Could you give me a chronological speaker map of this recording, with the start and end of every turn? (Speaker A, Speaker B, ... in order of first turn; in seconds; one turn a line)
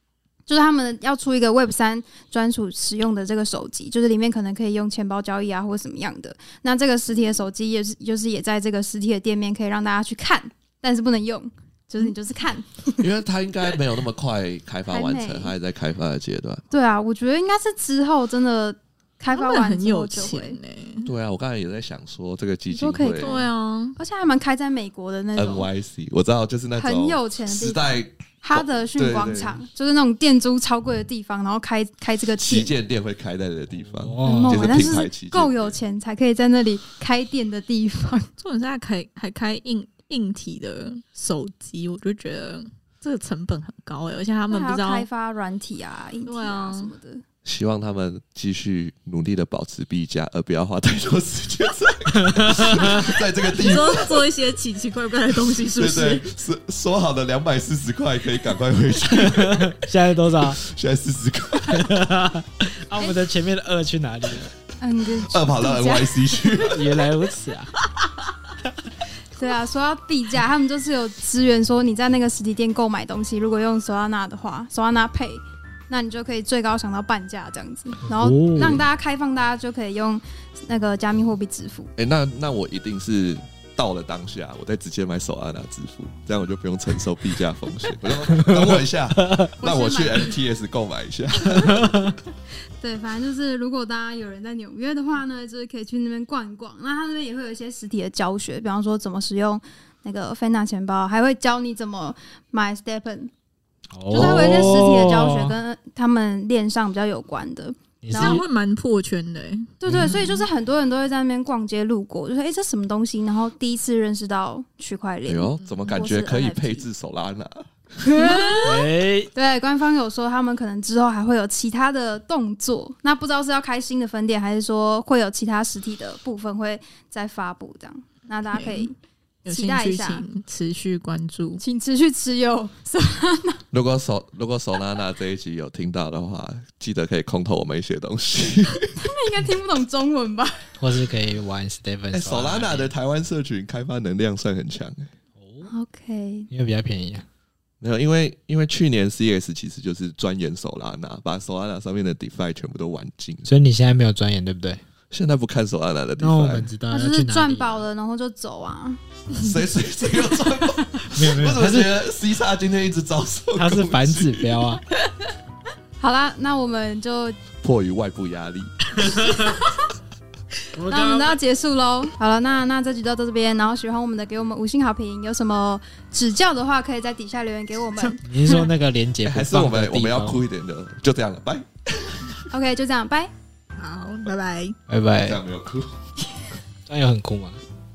Speaker A: 0.5-13.1
Speaker B: 13.0-16.6
Speaker A: 14.9-15.5
Speaker A: 16.7-20.6
Speaker C: 19.3-21.1
Speaker B: 21.1-23.4
Speaker A: 22.7-25.7
Speaker C: 23.1-24.0
Speaker B: 25.4-29.6
Speaker A: 26.8-32.7
Speaker B: 32.4-35.8
Speaker D: 33.8-34.9
Speaker A: 34.2-38.3
Speaker C: 38.4-45.1
Speaker A: 44.5-47.2
Speaker C: 46.3-46.9
Speaker B: 47.5-54.2
Speaker D: 52.2-53.1
Speaker C: 53.5-56.3
Speaker B: 55.8-59.8
Speaker D: 59.1-60.6
Speaker B: 60.4-61.9
Speaker D: 61.7-64.5
Speaker A: 64.8-66.3
Speaker B: 65.2-67.0
Speaker D: 66.5-67.7
Speaker A: 69.3-81.9
Speaker D: 78.2-78.8
Speaker B: 82.0-92.1
Speaker D: 88.3-89.5
Speaker A: 89.6-90.3
Speaker D: 91.7-92.1
Speaker A: 92.8-103.3
Speaker D: 103.9-105.6
Speaker A: 104.1-108.4
Speaker B: 104.1-104.7
Speaker D: 108.0-108.4
Speaker C: 108.1-110.2
Speaker A: 109.8-116.9
Speaker D: 109.9-110.2
Speaker B: 115.3-117.7
Speaker A: 118.0-128.9
Speaker D: 118.6-119.3
Speaker C: 128.5-128.9
Speaker C: 129.4-131.6
Speaker A: 129.5-130.3
Speaker A: 131.6-133.6
Speaker B: 133.7-138.9
Speaker A: 139.0-140.8
Speaker D: 140.8-142.9
Speaker B: 142.1-145.1
Speaker D: 145.4-145.7
Speaker A: 145.7-146.5
Speaker D: 146.5-147.2
Speaker B: 147.8-153.5
Speaker D: 153.5-154.8
Speaker B: 155.1-156.7
Speaker D: 156.2-157.8
Speaker A: 156.9-159.0
Speaker B: 159.4-164.7
Speaker A: 160.6-160.9
Speaker D: 161.1-161.9
Speaker D: 163.6-164.8
Speaker A: 166.0-167.4
Speaker B: 167.6-169.2
Speaker D: 169.0-169.5
Speaker A: 169.4-169.8
Speaker D: 170.8-171.4
Speaker A: 170.8-178.7
Speaker C: 178.0-178.7
Speaker D: 178.2-180.4
Speaker B: 179.2-182.3
Speaker A: 182.5-183.3
Speaker C: 183.8-184.8
Speaker D: 184.9-185.4
Speaker B: 185.2-186.0
Speaker D: 186.9-187.6